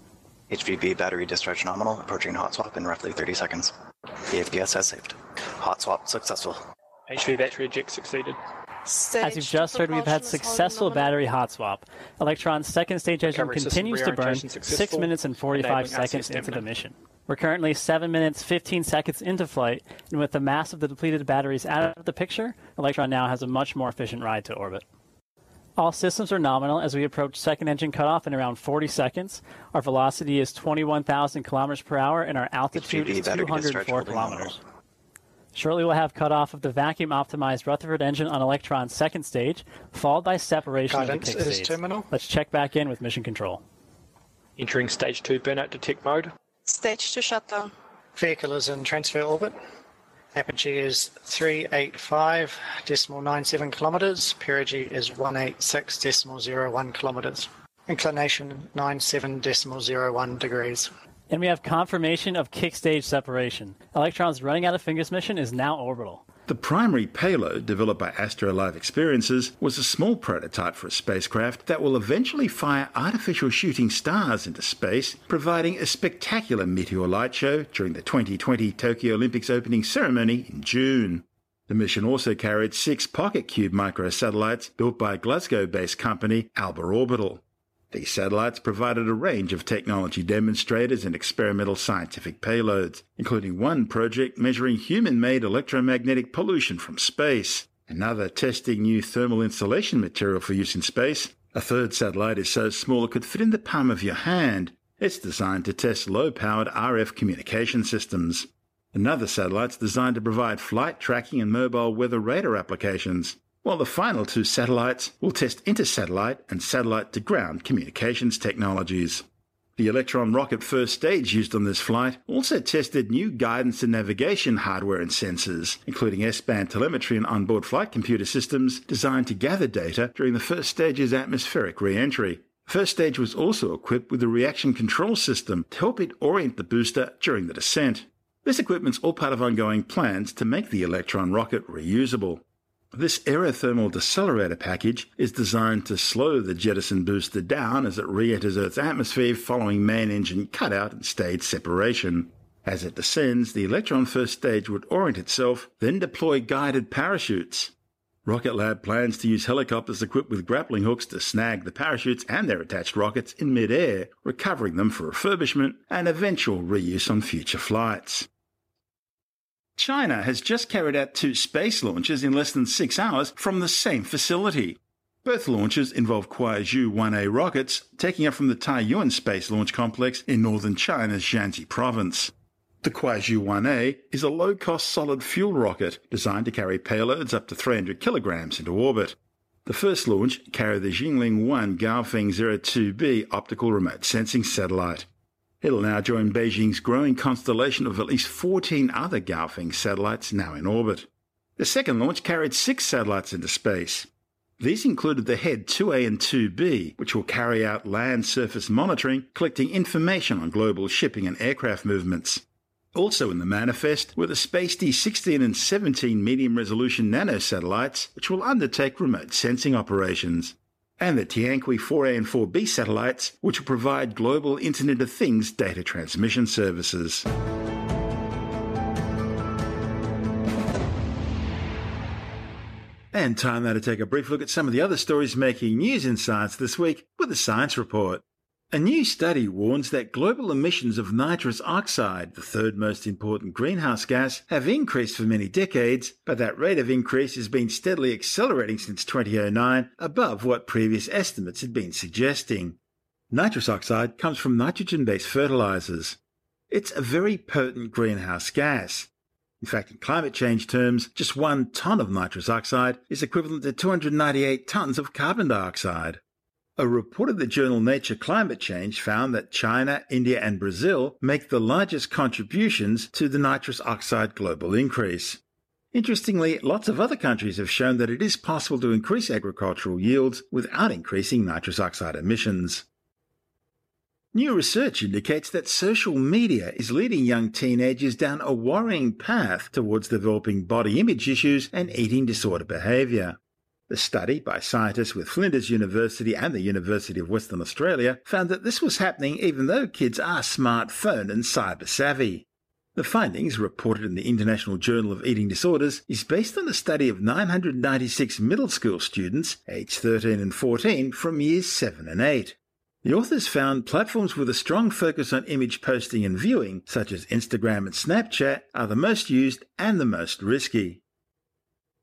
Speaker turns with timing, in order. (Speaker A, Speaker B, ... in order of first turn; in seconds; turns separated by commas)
Speaker A: 0.5-3.7, Speaker A: 4.3-6.7, Speaker B: 7.1-8.4, Speaker C: 8.9-11.1, Speaker D: 9.2-24.8, Speaker B: 13.3-16.7, Speaker D: 25.8-34.6, Speaker A: 32.7-34.6, Speaker D: 35.5-43.6, Speaker E: 40.9-42.1, Speaker B: 44.6-46.3, Speaker C: 46.7-47.7, Speaker E: 48.1-49.6, Speaker E: 50.4-60.9, Speaker D: 61.3-66.2, Speaker F: 66.5-119.2, Speaker F: 119.8-157.7, Speaker F: 158.2-168.3, Speaker F: 169.8-182.3, Speaker F: 182.8-195.1, Speaker F: 195.6-204.1, Speaker F: 204.6-212.4, Speaker F: 212.9-227.3, Speaker F: 233.1-252.8, Speaker F: 253.3-256.2, Speaker F: 256.7-259.1, Speaker F: 259.6-266.2, Speaker F: 266.8-275.4, Speaker F: 275.9-282.9, Speaker F: 284.3-293.4, Speaker F: 293.9-321.0